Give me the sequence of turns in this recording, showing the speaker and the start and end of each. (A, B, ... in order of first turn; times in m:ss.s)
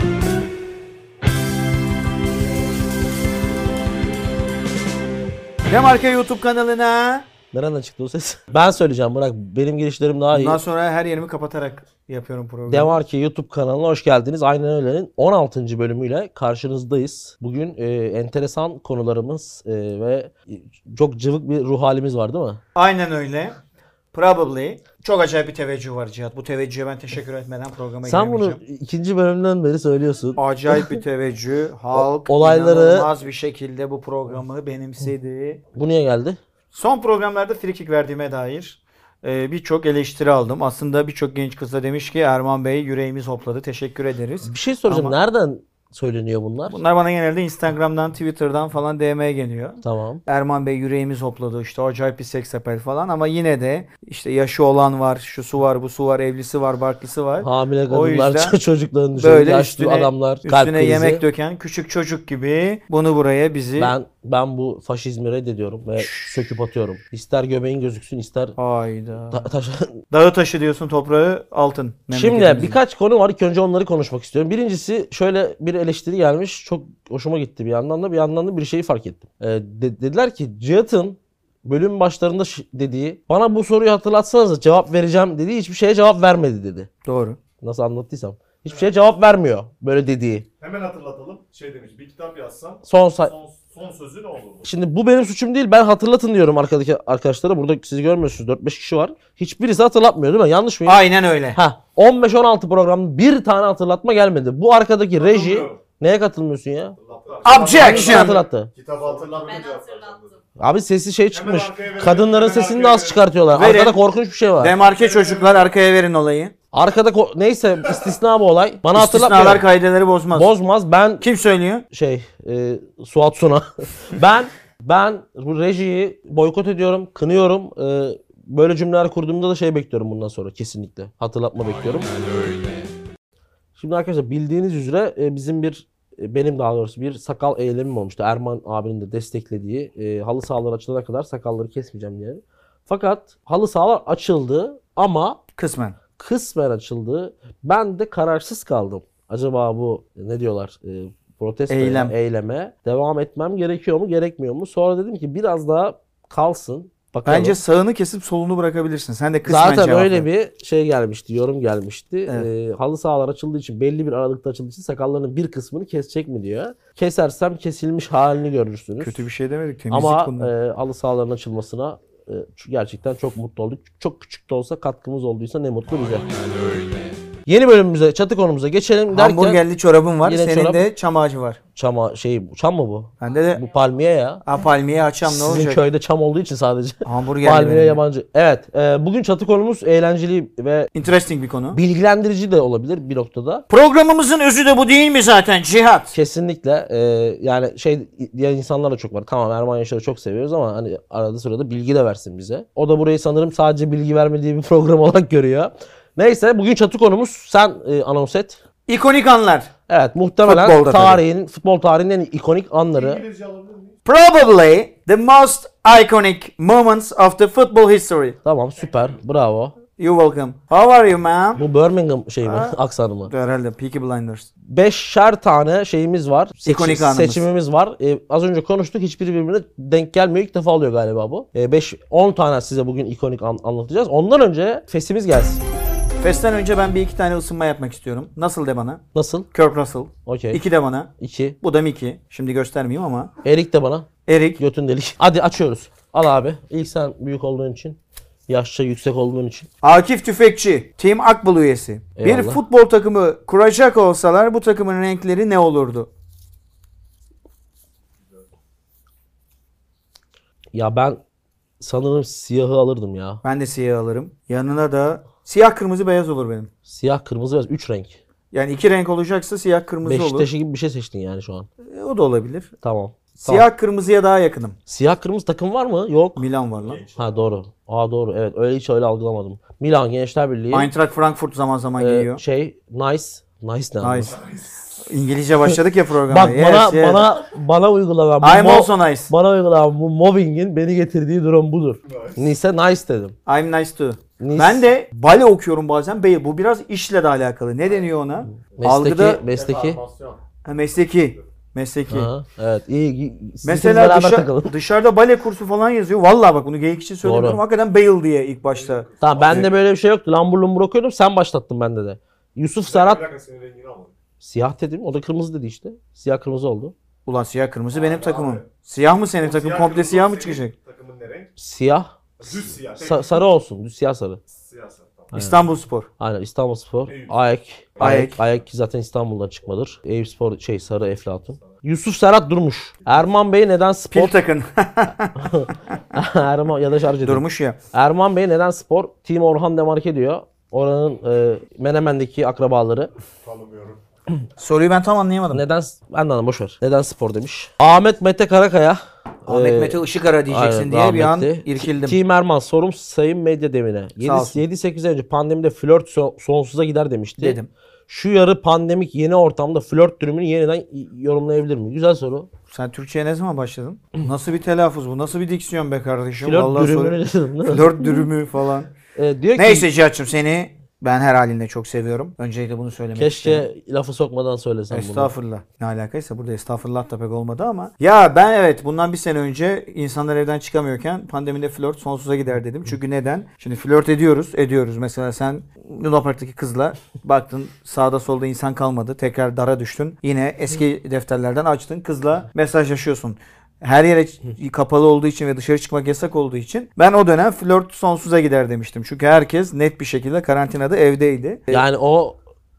0:05.7-0:07.3 A
0:07.5-0:10.6 B
0:10.3-0:13.0 A
0:12.7-0:22.6 B
0:22.8-0:23.6 A
0:24.1-0:28.6 A
0:28.0-0:31.0 B
0:30.4-0:35.6 A
0:31.9-0:33.1 B
0:35.8-0:36.4 B
0:36.7-0:45.2 A
0:44.4-0:46.8 B
0:46.7-0:58.6 A
0:49.8-0:50.2 B
0:57.4-1:01.2 B
0:59.2-1:03.9 A
1:03.8-1:08.6 B
1:06.0-1:06.4 A
1:08.6-1:09.5 A
1:09.3-1:10.0 B
1:10.1-1:12.8 A
1:12.1-1:26.9 B
1:27.1-1:27.4 A
1:27.6-1:30.5 B
1:30.6-1:34.7 C
1:32.8-1:33.3 B
1:34.6-1:41.0 B
1:40.9-1:41.6 A
1:41.6-1:47.0 B
1:45.2-1:45.8 C
1:47.0-1:50.4 C
1:47.4-1:48.4 A
1:47.6-1:48.7 B
1:50.6-1:54.8 B
1:51.3-1:53.3 C
1:53.5-1:54.0 A
1:54.6-1:56.5 A
1:54.8-1:55.6 C
1:56.7-1:59.7 B
1:58.9-2:00.5 A
2:00.4-2:01.3 B
2:01.2-2:01.8 A
2:01.9-2:12.1 B
2:13.8-2:25.4 B
2:25.6-2:26.0 A
2:26.2-2:37.6 B
2:31.7-2:32.1 A
2:37.3-2:40.3 A
2:39.5-2:49.2 B
2:49.0-2:50.5 A
2:49.9-2:56.3 B
2:57.5-2:59.6 B
2:59.1-3:01.6 A
3:00.2-3:00.9 B
3:01.8-3:04.4 B
3:03.2-3:03.6 A
3:04.4-3:05.8 A
3:05.2-3:10.9 B
3:07.0-3:08.0 A
3:11.0-3:11.8 A
3:11.7-3:13.7 B
3:13.7-3:16.1 A
3:16.1-3:28.6 B
3:28.9-3:29.7 A
3:29.9-3:33.2 B
3:30.4-3:31.2 A
3:33.0-3:34.0 C
3:34.0-3:38.4 A
3:38.4-3:39.7 B
3:40.0-3:41.6 A
3:41.6-3:43.3 B
3:42.4-3:44.5 A
3:44.7-3:55.6 B
3:46.6-3:47.4 A
3:56.2-3:59.0 A
3:59.2-3:59.5 B
3:59.5-4:03.3 A
4:00.3-4:00.6 B
4:01.2-4:01.6 B
4:03.4-4:04.1 B
4:04.3-4:04.6 A
4:04.6-4:09.7 B
4:09.8-4:16.1 A
4:12.2-4:12.6 B
4:20.7-4:21.2 B
4:21.8-4:23.4 B
4:23.4-4:26.7 A
4:26.9-4:28.2 B
4:28.5-4:30.5 A
4:30.0-4:31.7 B
4:31.8-4:32.7 A
4:32.8-4:33.7 B
4:33.4-4:34.8 A
4:34.9-4:36.5 B
4:36.4-4:37.0 A
4:36.8-4:37.3 C
4:37.2-4:40.9 B
4:40.7-4:42.4 A
4:42.0-4:44.4 B
4:44.0-4:44.4 A
4:45.0-4:47.3 A
4:46.3-4:53.4 B
4:48.4-4:49.3 A
4:52.1-4:52.4 C
4:53.5-4:59.4 A
4:54.4-4:54.8 B
4:58.5-5:00.0 B
4:59.4-5:00.4 C
5:00.6-5:02.3 A
5:02.1-5:04.7 B
5:03.6-5:09.7 A
5:07.2-5:07.6 B
5:08.7-5:09.6 C
5:09.2-5:13.2 B
5:12.9-5:14.1 C
5:14.4-5:16.9 B
5:17.3-5:20.7 A
5:17.9-5:18.6 C
5:19.4-5:21.5 C
5:21.6-5:22.1 B
5:22.4-5:23.5 C
5:22.8-5:24.4 B
5:24.5-5:25.3 C
5:25.3-5:26.1 A
5:26.2-5:34.4 B
5:28.0-5:28.4 A
5:34.1-5:35.5 A
5:35.4-5:43.1 B
5:37.2-5:37.8 A
5:43.4-5:44.0 C
5:44.6-5:45.6 A
5:45.5-6:02.5 B
5:49.5-5:52.2 A
5:54.2-5:54.6 A
5:57.4-5:57.7 A
6:02.7-6:08.9 A
6:06.4-6:08.3 B
6:09.2-6:09.9 B
6:09.6-6:13.7 A
6:13.2-6:15.3 B
6:14.9-6:41.8 A
6:41.7-6:42.4 B